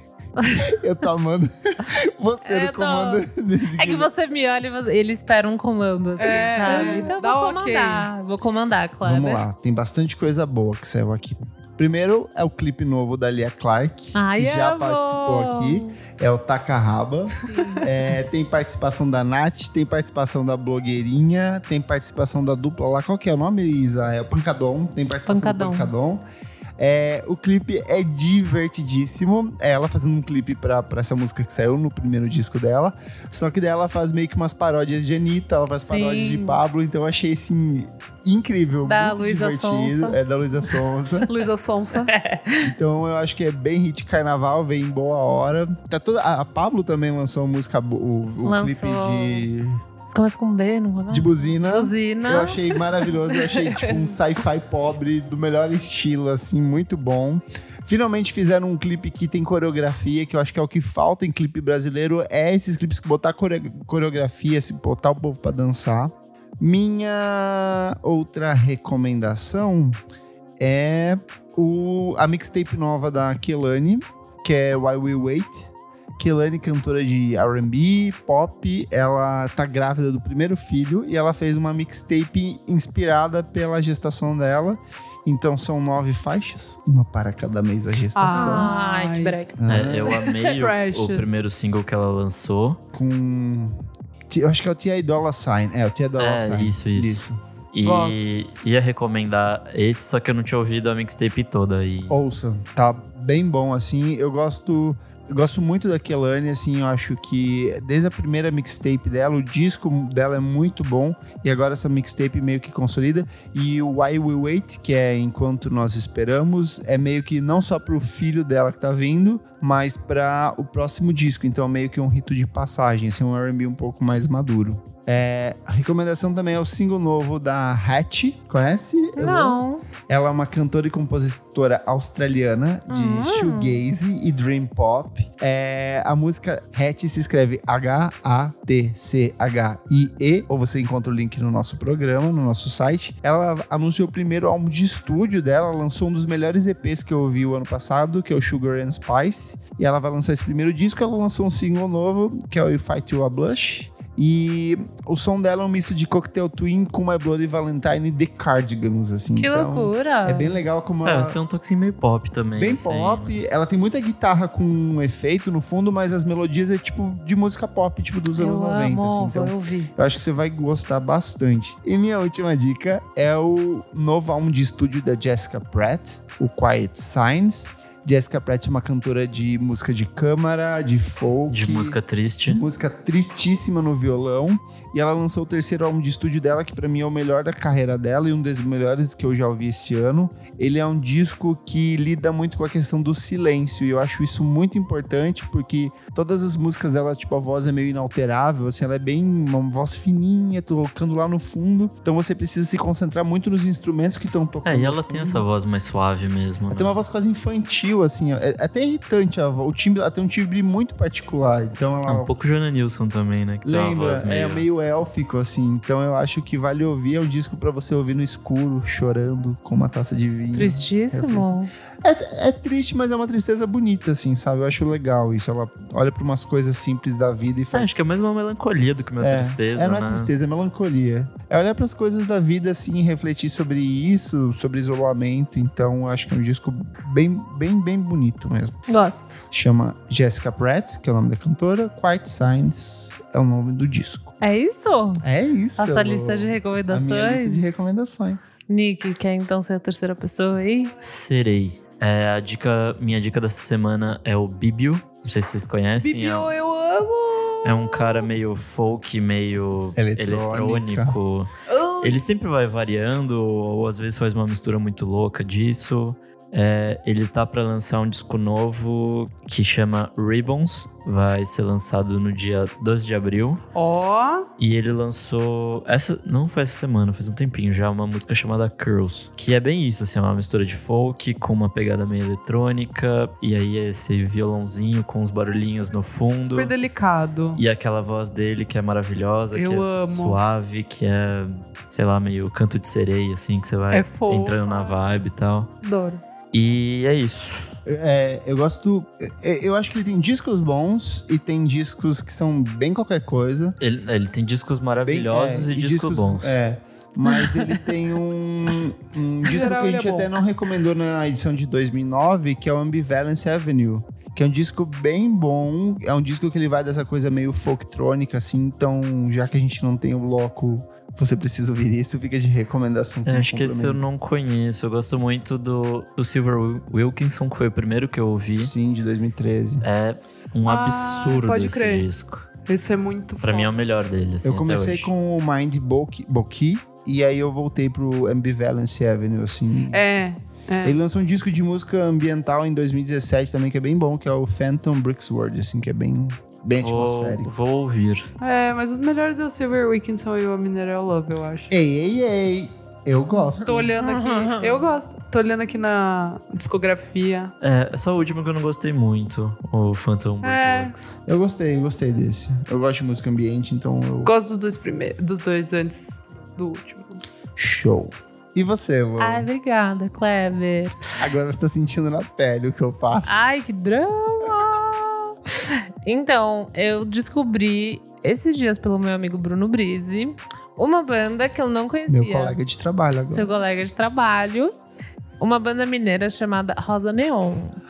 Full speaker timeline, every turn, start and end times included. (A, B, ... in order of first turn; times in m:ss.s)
0:00.4-0:00.6 A
0:00.6-0:04.1 B
0:02.4-0:03.2 A
0:03.8-0:09.4 A
0:06.2-0:08.1 C
0:06.6-0:07.1 B
0:09.0-0:26.2 B
0:14.1-0:15.9 A
0:17.5-0:17.8 C
0:17.5-0:17.8 A
0:25.2-0:25.9 A
0:26.8-0:41.3 B
0:35.8-0:36.6 A
0:38.8-0:40.2 A
0:41.3-0:42.1 C
0:42.1-0:42.7 A
0:42.6-0:49.8 B
0:48.4-0:49.5 A
0:50.1-0:54.1 A
0:51.1-1:10.0 B
1:10.6-1:28.7 B
1:28.1-1:29.4 C
1:28.3-1:29.6 A
1:29.6-1:30.2 B
1:29.7-1:32.8 D
1:30.1-1:31.4 C
1:32.9-1:37.4 B
1:36.2-1:42.2 D
1:37.8-1:38.2 C
1:42.1-2:41.4 B
2:09.1-2:09.8 A
2:12.9-2:13.8 A
2:39.4-2:40.6 A
2:41.0-2:43.4 D
2:42.6-3:25.5 B
2:48.4-2:49.9 A
3:01.5-3:02.6 D
3:24.6-3:27.0 D
3:26.7-3:32.3 B
3:32.0-3:34.6 D
3:33.6-3:48.0 B
3:40.5-3:41.7 A
3:47.7-3:50.3 D
3:49.2-3:58.8 B
3:58.9-3:59.4 A
3:59.5-4:04.3 B
4:04.4-4:05.2 A
4:05.2-4:08.5 B
4:05.8-4:07.9 A
4:08.7-4:10.9 A
4:11.0-4:16.5 D
4:16.0-4:18.3 C
4:17.6-4:33.6 D
4:20.0-4:21.2 B
4:21.7-4:22.2 C
4:33.7-4:34.5 C
4:34.6-4:46.7 D
4:46.4-4:47.6 C
4:47.6-4:55.7 D
4:49.5-4:50.4 C
4:53.9-4:55.0 C
4:55.8-4:56.2 C
4:56.5-4:57.7 D
4:57.8-5:03.8 B
5:03.8-5:06.5 D
5:05.0-5:24.0 B
5:09.4-5:10.4 C
5:23.2-5:28.7 D
5:28.6-5:29.8 B
5:29.8-5:32.5 D
5:30.6-5:32.1 C
5:32.6-5:33.8 C
5:33.4-5:35.1 D
5:34.4-5:40.0 B
5:39.9-5:41.0 C
5:40.8-5:47.5 B
5:46.8-5:48.3 D
5:48.4-5:51.7 C
5:51.7-5:53.9 B
5:53.6-5:57.5 C
5:54.0-5:54.9 A
5:57.6-6:01.2 D
6:00.4-6:00.9 C
6:01.3-6:04.3 B
6:04.2-6:07.2 C
6:07.6-6:09.5 B
6:09.2-6:11.0 A
6:11.2-6:13.6 B
6:13.2-6:22.6 A
6:22.1-6:23.5 B
6:23.3-6:24.7 A
6:25.4-6:27.8 A